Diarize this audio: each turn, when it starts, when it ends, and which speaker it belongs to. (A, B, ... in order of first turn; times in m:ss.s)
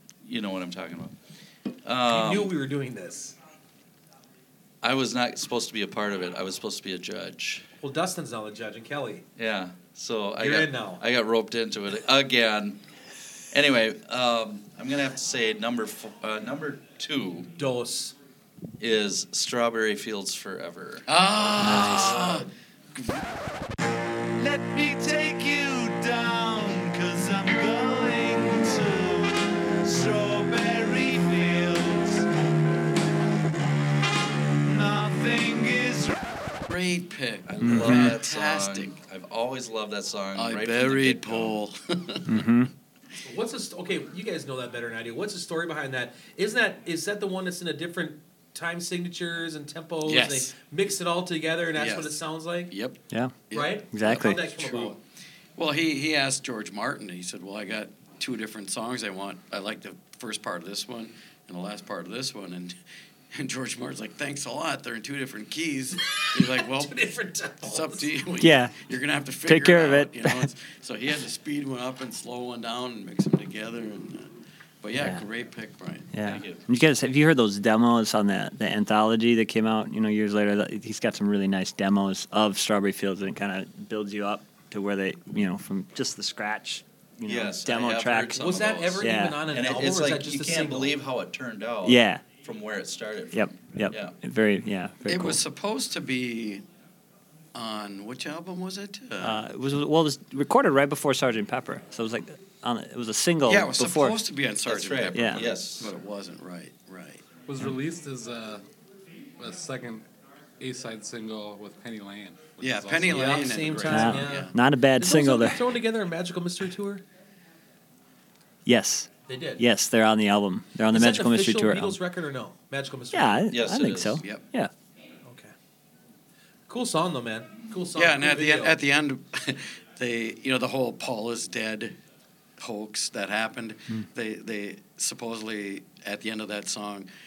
0:00.2-0:01.2 A
0:01.8-0:02.5 A
0:02.0-0:03.4 B
0:04.8-0:07.6 A
0:07.8-0:09.2 B
0:09.4-0:12.8 A
0:10.4-0:11.0 B
0:13.5-0:17.5 A
0:17.6-0:18.1 B
0:18.8-0:21.0 A
0:21.1-0:23.0 C
0:21.7-0:21.9 D
0:21.7-0:22.0 A
0:24.4-0:32.2 E
0:34.6-0:36.1 E
0:36.7-0:38.9 C
0:37.5-0:41.5 A
0:37.6-0:38.1 D
0:40.3-0:42.2 C
0:42.3-0:42.7 D
0:43.2-0:52.7 B
0:50.0-0:50.5 C
0:51.8-0:52.2 C
0:52.7-0:54.9 C
0:53.5-0:55.0 B
0:53.9-0:54.4 D
0:55.6-1:02.8 C
1:03.3-1:07.0 C
1:06.4-1:08.0 B
1:07.6-1:16.1 C
1:08.4-1:08.7 D
1:09.5-1:10.4 D
1:14.9-1:15.2 D
1:16.1-1:29.4 D
1:16.2-1:16.6 A
1:27.2-1:34.1 A
1:28.4-1:31.0 B
1:31.8-1:32.2 D
1:33.3-1:35.4 D
1:35.1-1:36.6 C
1:37.5-1:39.4 C
1:39.2-1:44.2 D
1:43.5-1:47.2 C
1:44.6-1:45.9 A
1:45.1-1:45.4 D
1:47.4-1:48.6 F
1:49.4-1:50.0 F
1:50.6-1:54.1 F
1:52.6-1:54.5 C
1:53.1-1:57.0 B
1:53.9-1:55.6 D
1:58.6-2:02.0 D
1:59.3-1:59.6 B
2:00.9-2:03.4 B
2:03.1-2:04.7 D
2:03.5-2:04.2 A
2:05.2-2:05.5 B
2:06.7-2:08.8 B
2:07.9-2:12.0 C
2:12.6-2:17.1 C